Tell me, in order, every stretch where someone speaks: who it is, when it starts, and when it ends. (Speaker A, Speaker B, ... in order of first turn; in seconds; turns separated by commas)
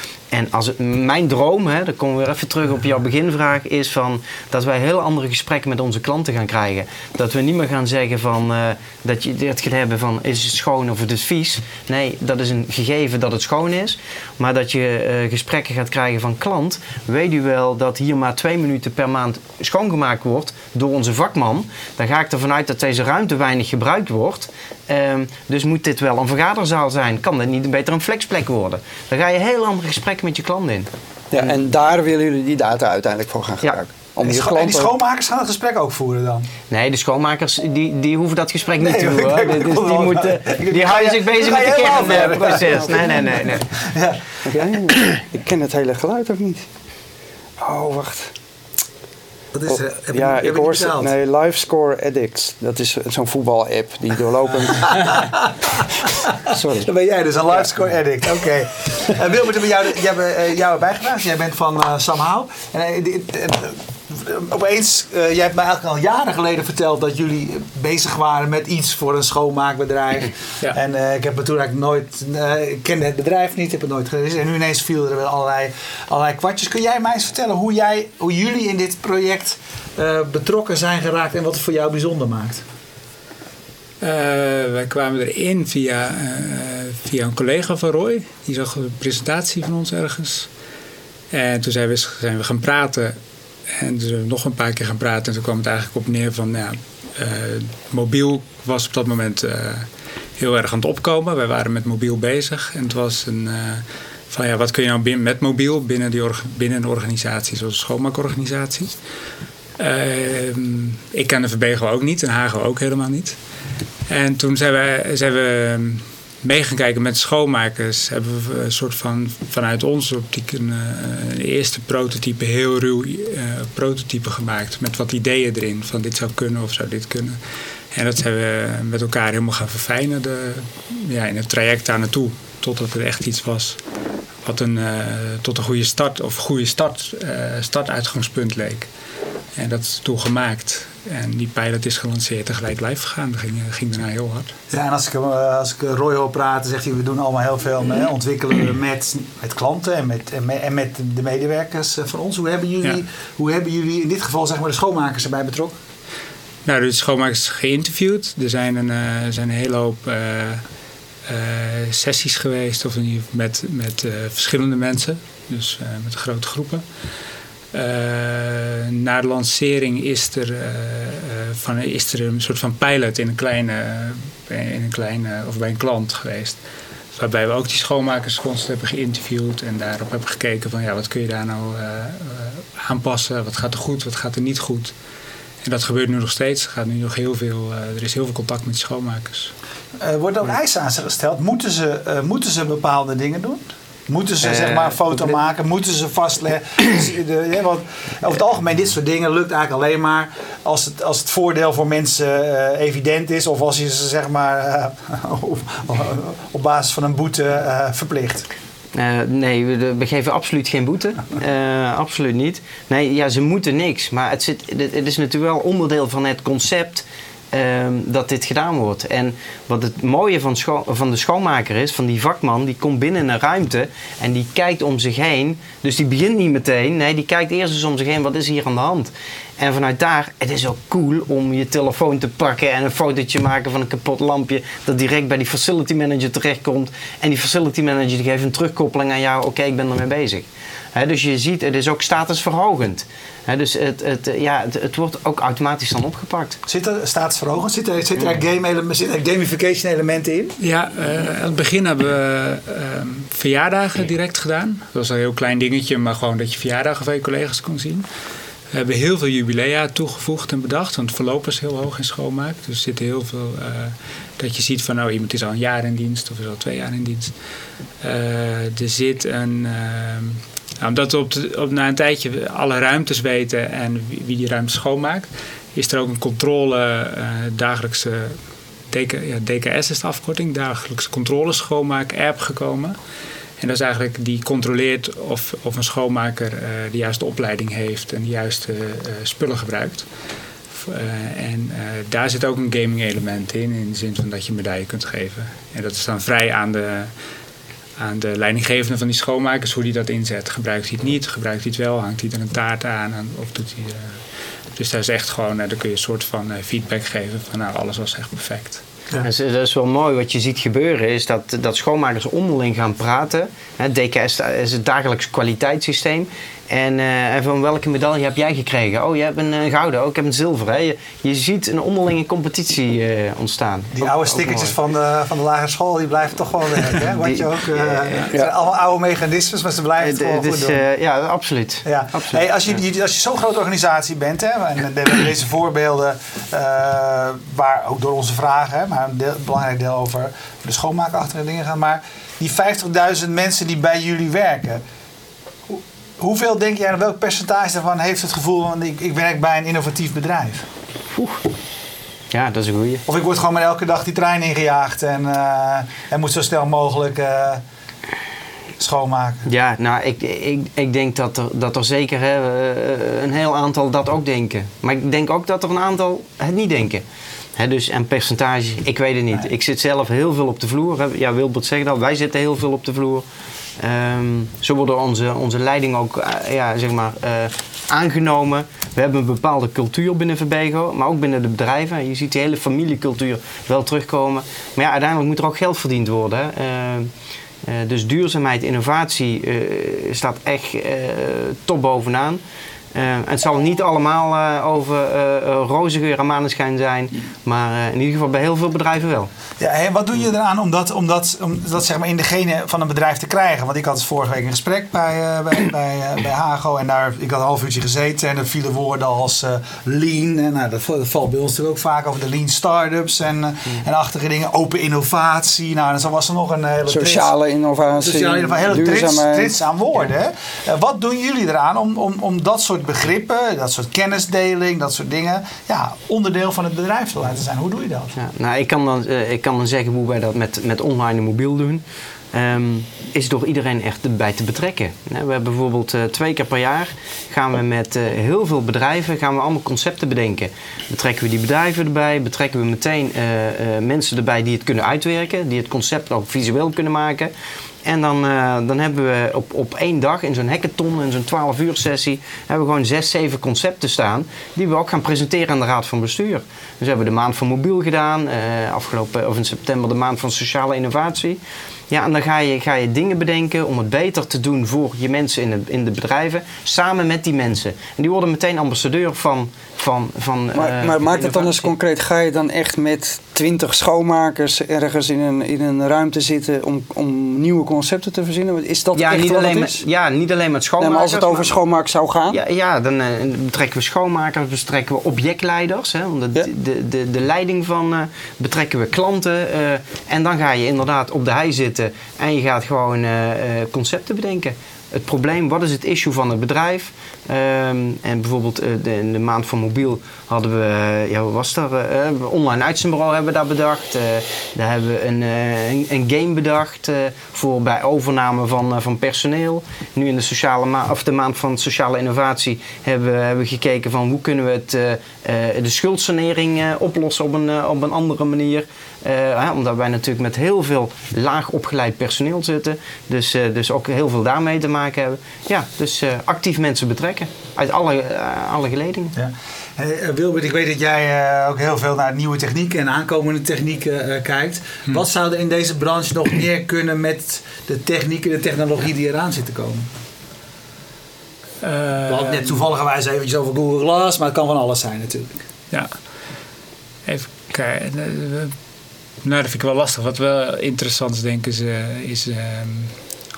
Speaker A: 0.3-30.9, Speaker B: 31.3-34.9, Speaker C: 34.2-36.5, Speaker A: 36.7-43.7, Speaker C: 38.8-44.2, Speaker B: 42.6-42.9, Speaker B: 44.4-46.6, Speaker B: 47.6-48.3, Speaker C: 49.5-51.1, Speaker B: 49.7-55.3, Speaker C: 54.9-55.3, Speaker B: 56.4-56.9, Speaker C: 56.8-82.6, Speaker D: 84.0-90.5, Speaker D: 91.3-93.2, Speaker D: 93.8-108.9, Speaker D: 109.8-113.4, Speaker D: 114.1-127.4, Speaker D: 127.9-133.8, Speaker D: 134.4-138.9, Speaker D: 139.6-144.5, Speaker C: 144.7-155.8, Speaker D: 156.6-160.6, Speaker D: 161.2-166.8, Speaker D: 167.7-176.6, Speaker D: 177.1-184.9, Speaker D: 185.6-189.5, Speaker C: 190.0-208.5, Speaker A: 194.4-195.0, Speaker A: 208.9-246.6, Speaker C: 246.7-250.6, Speaker D: 250.6-258.0, Speaker D: 258.7-267.4, Speaker D: 268.0-278.4, Speaker D: 278.9-282.9, Speaker D: 283.6-290.1, Speaker D: 290.7-297.1, Speaker D: 298.0-304.2, Speaker D: 304.7-308.8, Speaker A: 309.2-324.8, Speaker C: 324.0-330.8, Speaker A: 327.1-328.3, Speaker A: 330.0-332.4, Speaker C: 331.8-344.8, Speaker C: 345.7-350.6, Speaker A: 351.1-351.4, Speaker A: 352.3-353.0, Speaker C: 353.1-357.6, Speaker C: 358.8-359.4, Speaker A: 359.4-367.0, Speaker A: 367.6-373.2, Speaker A: 373.8-387.1, Speaker A: 387.6-392.4, Speaker A: 392.9-399.3, Speaker C: 399.6-417.3, Speaker B: 416.9-419.6, Speaker C: 418.0-428.1, Speaker A: 428.1-447.3, Speaker A: 447.8-471.7, Speaker B: 470.5-479.8, Speaker A: 478.9-481.5, Speaker B: 480.8-482.4, Speaker A: 482.3-529.1, Speaker C: 529.1-539.9, Speaker D: 541.6-542.6, Speaker C: 542.1-545.4, Speaker D: 547.0-548.5, Speaker D: 549.2-552.9